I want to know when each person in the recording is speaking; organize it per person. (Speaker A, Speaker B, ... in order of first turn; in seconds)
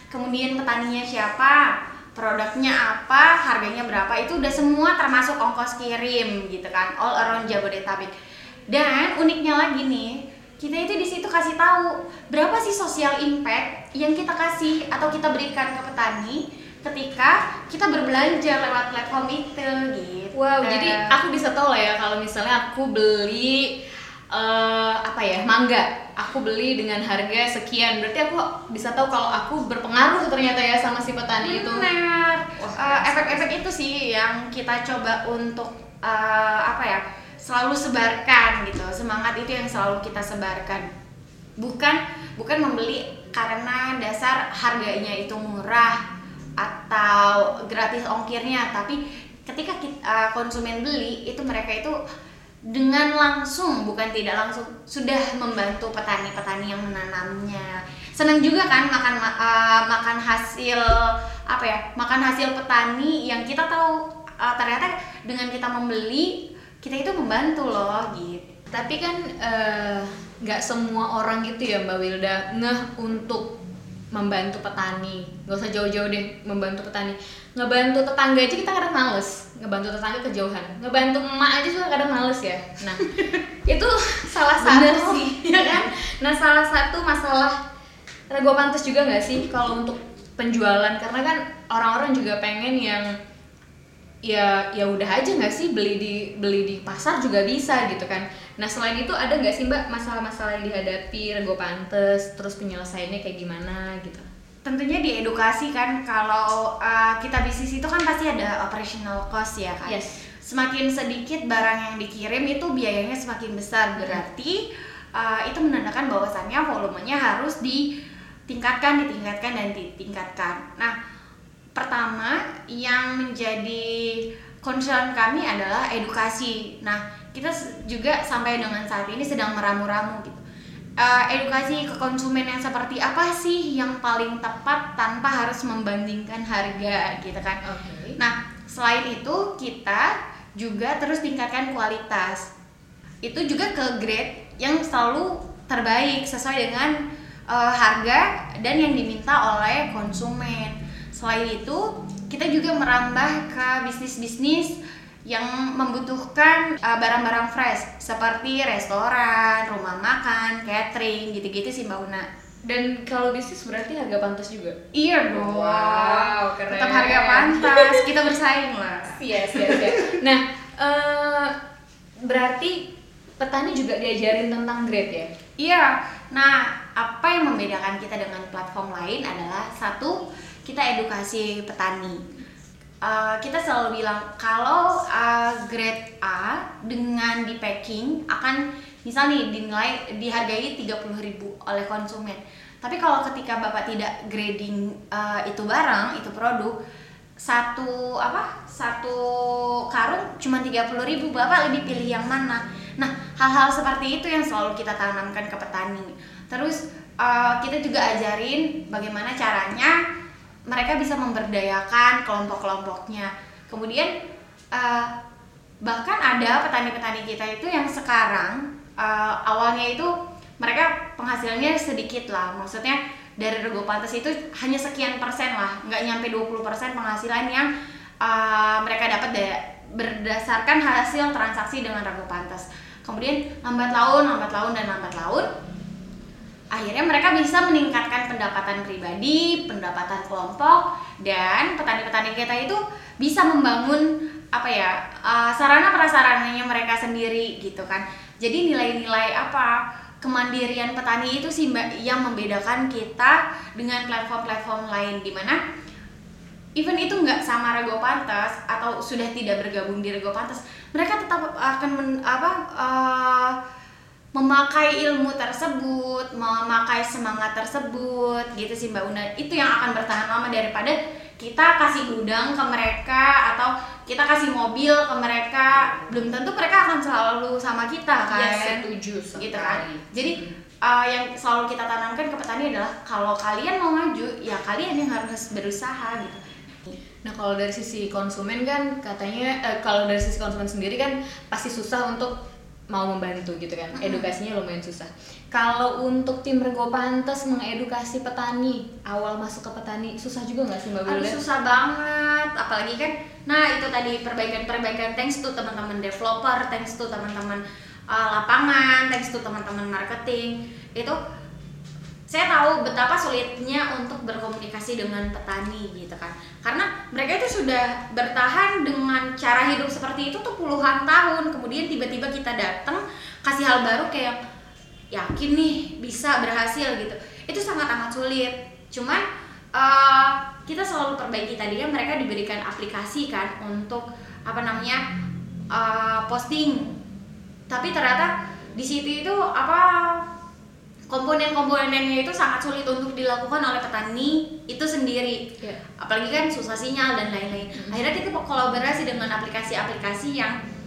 Speaker A: 0.1-8.1, 8.7-21.1, 31.4-40.9, 41.6-46.0, 46.6-52.0, 52.7-68.5, 84.6-85.8, 104.6-114.6, 115.1-117.9, 118.5-120.9, 121.7-130.4, 131.0-137.6, 138.2-142.5, 143.2-162.3, 164.9-170.2, 175.6-182.2, 183.0-196.7, 197.4-209.9, 210.7-214.1, 214.7-215.1, 215.8-227.7, 228.2-235.5, 236.7-255.6, 256.8-263.6, 264.3-278.9, 279.4-286.9, 293.9-294.3, 301.1-311.2, 312.3-324.4, 325.1-329.2, 329.7-335.0, 335.7-336.9, 337.7-340.3, 341.1-350.6
Speaker B: 20.3-23.8, 24.3-31.9, 32.6-33.6, 68.7-73.5, 74.1-83.1, 83.6-87.6, 88.3-93.1, 94.2-104.3, 109.8-110.2, 137.6-138.2, 162.7-164.8, 165.3-168.1, 169.1-171.5, 172.2-175.3, 278.3-280.5, 287.2-292.3, 292.9-301.4, 347.7-348.0